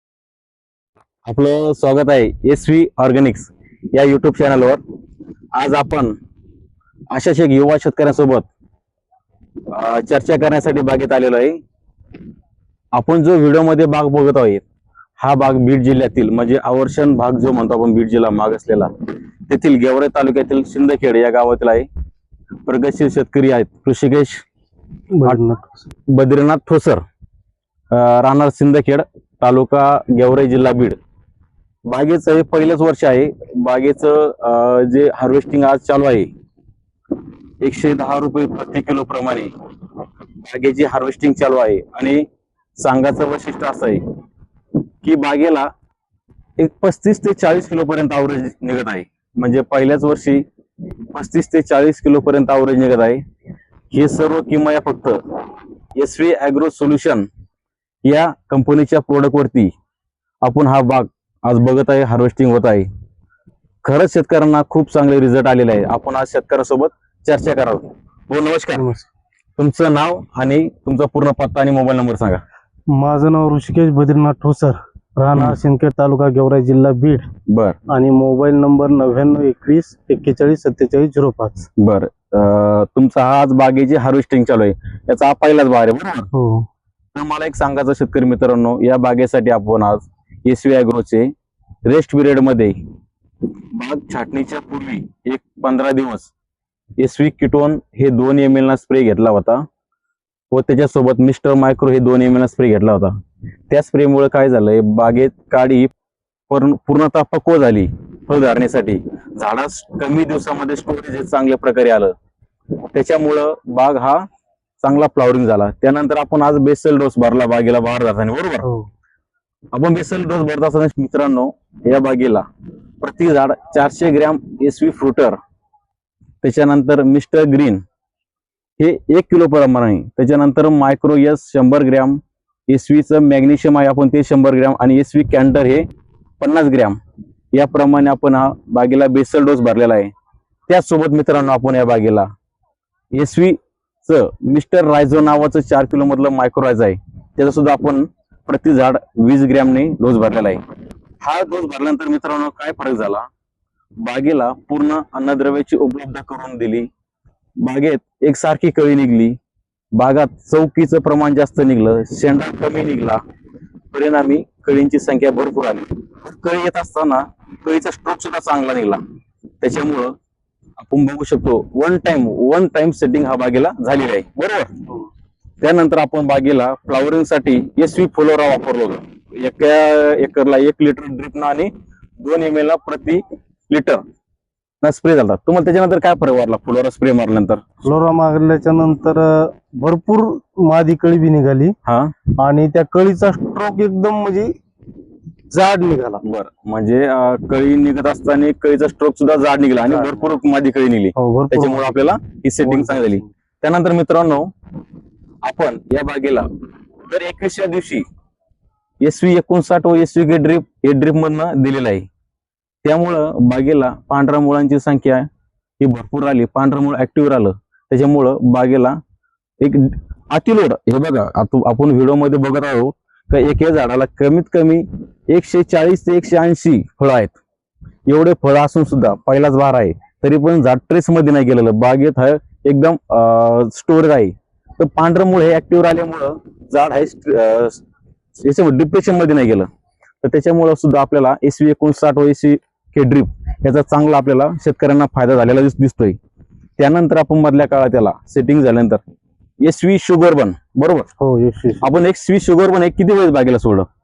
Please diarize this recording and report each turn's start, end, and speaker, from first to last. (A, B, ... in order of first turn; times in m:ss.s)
0:01.3-0:04.8 A
0:05.5-0:06.1 A
0:07.1-0:08.5 A
0:09.7-0:11.6 A
0:12.9-0:14.6 A
0:15.2-0:18.9 A
0:19.5-0:21.9 A
0:22.7-0:24.4 A
0:25.1-0:25.8 B
0:26.1-0:27.0 A
0:27.9-0:31.0 A
0:31.9-0:36.3 A
0:37.6-0:39.5 A
0:40.4-0:42.2 A
0:42.8-0:44.0 A
0:45.0-0:45.7 A
0:46.6-0:50.4 A
0:51.1-0:53.2 A
0:53.9-0:55.2 A
0:56.0-0:57.3 A
0:58.0-0:59.7 A
1:00.4-1:02.9 A
1:03.8-1:08.9 A
1:08.7-1:09.1 B
1:09.6-1:12.4 A
1:12.9-1:17.3 B
1:17.5-1:17.8 A
1:17.9-1:21.7 B
1:21.8-1:26.3 A
1:26.3-1:26.7 B
1:27.1-1:31.3 A
1:31.8-1:32.7 A
1:33.7-1:36.3 A
1:37.0-1:39.6 A
1:40.5-1:43.1 A
1:43.7-1:45.9 A
1:46.5-1:52.1 A
1:52.9-1:54.2 A
1:54.8-1:58.7 A
1:58.6-1:58.9 B
1:59.7-2:02.4 A
2:03.0-2:05.4 A
2:06.4-2:07.8 A
2:08.8-2:15.9 A
2:16.4-2:17.0 A
2:17.5-2:20.1 A
2:20.7-2:22.3 A
2:23.1-2:30.6 A
2:31.2-2:33.3 A
2:34.0-2:36.9 A
2:37.6-2:39.4 A
2:39.9-2:43.2 A
2:43.9-2:49.0 A
2:49.6-2:50.1 A
2:50.8-2:54.7 A
2:55.6-3:04.0 A
3:04.8-3:07.7 A
3:07.8-3:11.8 B
3:11.9-3:12.2 A
3:12.4-3:14.6 B
3:15.5-3:16.2 B
3:16.2-3:24.5 A
3:19.8-3:20.3 B
3:21.2-3:23.3 B
3:25.4-3:26.5 A
3:27.1-3:28.0 A
3:29.0-3:32.1 A
3:32.8-3:35.3 A
3:35.8-3:39.0 A
3:39.6-3:47.4 A
3:48.1-3:57.8 A
3:58.4-3:59.7 A
4:00.2-4:06.2 A
4:06.8-4:09.0 A
4:09.6-4:11.1 A
4:11.2-4:11.9 B
4:11.8-4:13.9 A